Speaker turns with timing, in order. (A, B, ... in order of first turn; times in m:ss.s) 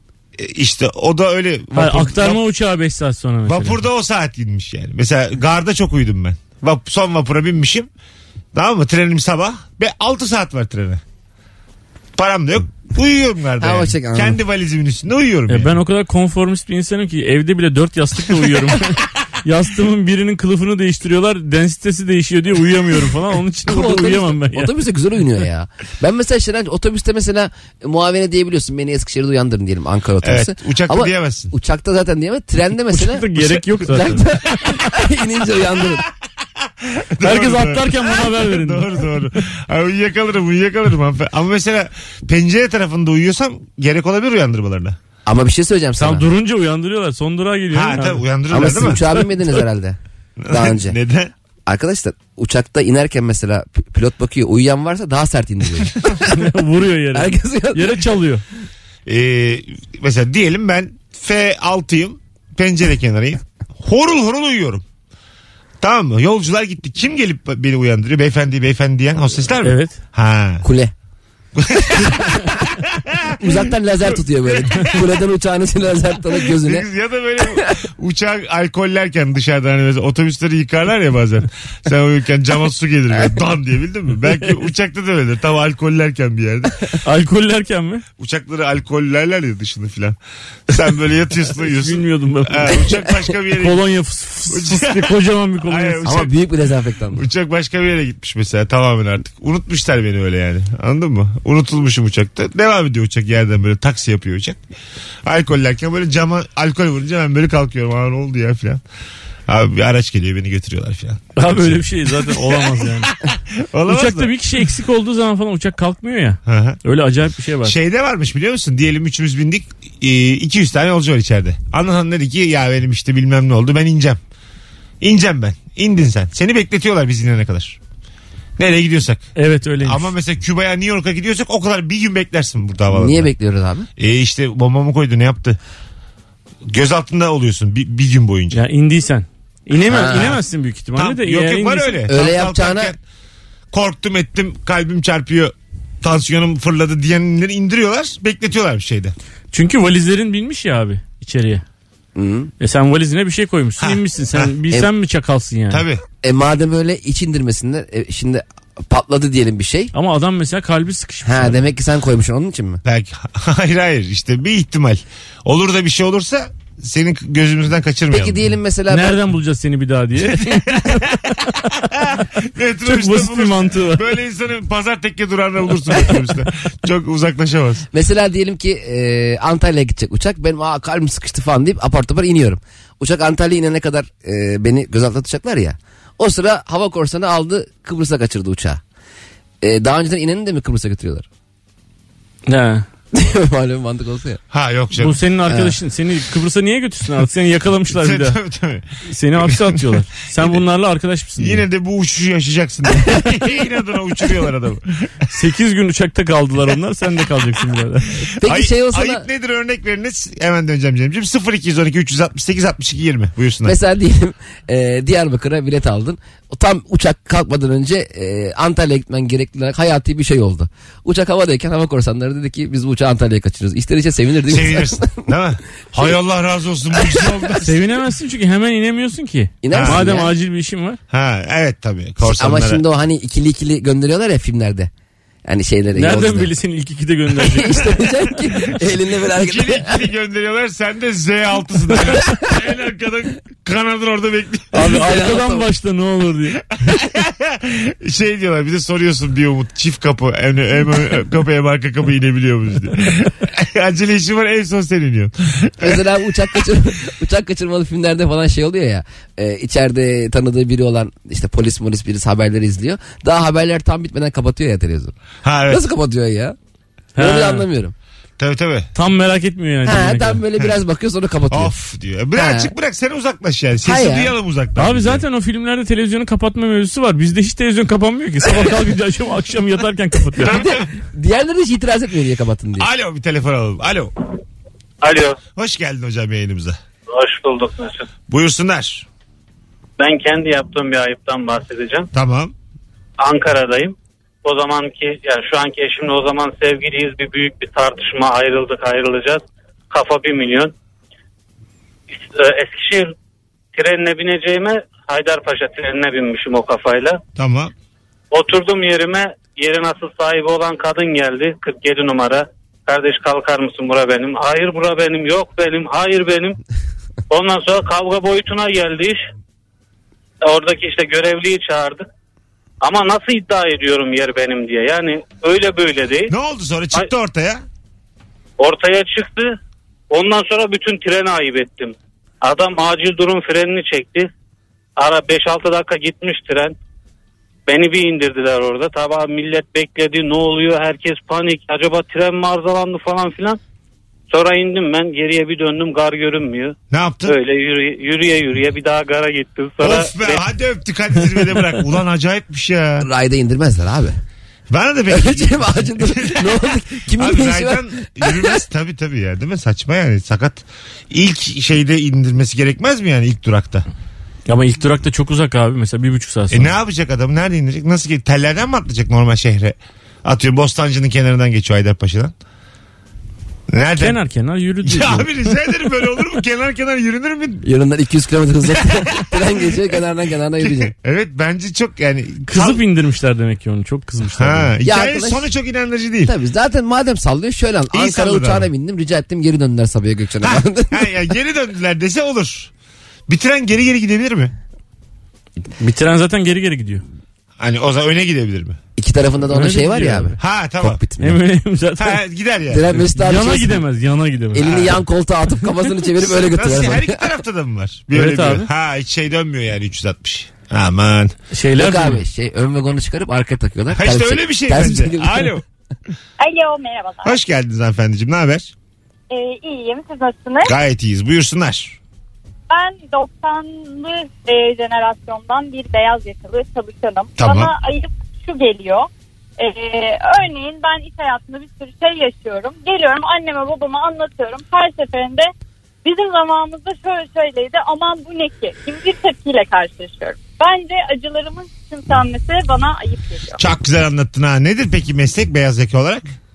0:00.4-0:02.4 A
0:01.7-0:03.8 B
0:03.5-0:07.9 A
0:08.5-0:11.0 A
0:12.2-0:15.8 A
0:13.6-0:14.3 C
0:15.5-0:24.7 B
0:23.7-0:33.3 C
0:30.2-0:31.5 A
0:32.9-0:34.8 B
0:33.9-0:36.0 C
0:36.6-0:45.0 A
0:37.2-0:39.0 B
0:45.3-0:46.2 C
0:46.0-0:49.2 B
0:47.7-0:49.0 A
0:48.5-0:50.0 C
0:50.4-0:51.3 A
0:50.5-0:51.0 C
0:51.7-0:55.9 C
0:56.2-0:58.4 B
0:57.1-0:58.0 C
0:59.1-1:04.8 A
1:05.8-1:10.6 A
1:09.6-1:10.0 B
1:10.6-1:10.9 C
1:11.6-1:13.4 A
1:13.4-1:16.8 C
1:14.4-1:15.0 A
1:16.5-1:26.9 A
1:27.0-1:28.0 B
1:28.2-1:30.2 A
1:30.7-1:33.8 A
1:31.6-1:36.3 B
1:34.5-1:36.3 A
1:36.1-1:37.2 C
1:37.1-1:44.6 A
1:45.2-1:48.8 A
1:49.5-1:54.3 A
1:51.4-1:53.1 B
1:53.9-1:57.8 B
1:56.5-1:56.8 A
1:57.6-2:04.2 A
2:05.0-2:07.8 A
2:08.6-2:09.3 A
2:09.4-2:10.1 B
2:09.8-2:13.3 A
2:12.9-2:13.9 C
2:14.0-2:15.6 A
2:16.7-2:18.6 A
2:18.5-2:22.1 B
2:19.9-2:20.2 C
2:20.0-2:20.4 A
2:21.0-2:23.0 A
2:22.1-2:22.9 C
2:23.7-2:29.2 A
2:29.5-2:31.6 B
2:32.2-2:32.5 C
2:32.6-2:35.8 B
2:33.8-2:34.5 A
2:35.7-2:36.0 A
2:36.2-2:39.9 C
2:39.9-2:41.6 B
2:41.2-2:42.8 C
2:42.8-2:48.4 A
2:48.1-2:49.2 C
2:48.9-2:51.6 B
2:50.2-2:57.9 A
2:52.8-2:54.1 B
2:57.9-3:08.8 C
3:09.6-3:11.2 C
3:12.5-3:12.9 B
3:13.2-3:14.4 C
3:14.5-3:15.2 A
3:15.0-3:18.4 B
3:15.5-3:15.7 C
3:17.9-3:18.9 A
3:19.1-3:21.6 B
3:19.4-3:20.6 A
3:21.4-3:25.3 A
3:25.3-3:28.3 B
3:28.4-3:29.2 C
3:28.4-3:33.8 A
3:33.6-3:45.2 C
3:44.5-3:47.8 A
3:47.6-3:51.0 B
3:49.6-3:50.3 C
3:49.7-3:50.0 A
3:51.1-3:52.8 A
3:52.2-3:54.9 C
3:55.5-3:56.5 C
3:56.0-3:58.1 B
3:57.6-4:00.0 C
3:59.3-4:05.0 A
4:04.7-4:06.6 B
4:05.0-4:05.6 C
4:06.7-4:16.6 A
4:15.8-4:25.1 C
4:25.4-4:25.8 A
4:25.7-4:26.6 C
4:27.2-4:27.7 B
4:27.2-4:27.9 C
4:28.4-4:28.9 A
4:29.0-4:30.4 B
4:29.8-4:31.7 C
4:31.5-4:35.2 A
4:32.4-4:32.7 C
4:33.8-4:34.3 C
4:34.8-4:40.7 B
4:40.4-4:40.8 A
4:41.1-4:42.9 C
4:42.8-4:44.1 A
4:45.0-4:45.4 D
4:45.6-4:46.8 A
4:47.1-4:48.1 D
4:48.3-4:49.1 A
4:50.0-4:52.1 D
4:52.1-4:52.5 A
4:53.2-5:00.7 D
5:02.1-5:03.1 D
5:03.7-5:07.2 D
5:07.4-5:07.7 A
5:08.3-5:16.6 D
5:17.3-5:19.2 D
5:20.4-5:22.0 D
5:22.8-5:26.3 D
5:26.3-5:27.6 A
5:28.6-5:29.6 D
5:30.1-5:34.3 D
5:35.0-5:36.8 D
5:37.7-5:43.6 D
5:44.3-5:50.4 D
5:46.9-5:47.4 A
5:49.8-5:53.1 A
5:53.0-5:54.1 C
5:54.7-6:03.9 A
5:55.1-5:57.8 C
6:04.5-6:06.7 B
6:06.5-6:12.4 A
6:13.7-6:14.2 A
6:14.0-6:15.3 B
6:14.8-6:17.7 A
6:17.6-6:20.9 C
6:20.6-6:22.8 A
6:22.5-6:24.7 B
6:24.4-6:26.3 A
6:24.8-6:25.5 C
6:26.2-6:31.0 C
6:27.9-6:28.7 A
6:30.4-6:32.7 A
6:33.3-6:34.5 A
6:35.8-6:37.0 B
6:37.6-6:38.8 A
6:39.0-6:41.4 C
6:39.5-6:40.4 B
6:40.4-6:41.0 A
6:41.2-6:42.2 B
6:42.0-6:42.9 A
6:42.7-6:43.8 C
6:43.0-6:44.9 B
6:44.5-6:47.1 C
6:44.6-6:44.9 A
6:46.2-6:51.4 A
6:48.1-6:48.7 B
6:51.5-6:52.2 B
6:51.8-6:55.4 C
6:53.9-6:55.6 A
6:56.4-6:57.4 E
6:57.2-6:58.7 A
6:59.3-7:00.8 E
7:00.6-7:02.0 A
7:02.7-7:15.5 E
7:07.4-7:07.7 A
7:16.0-7:23.6 E
7:23.6-7:26.3 A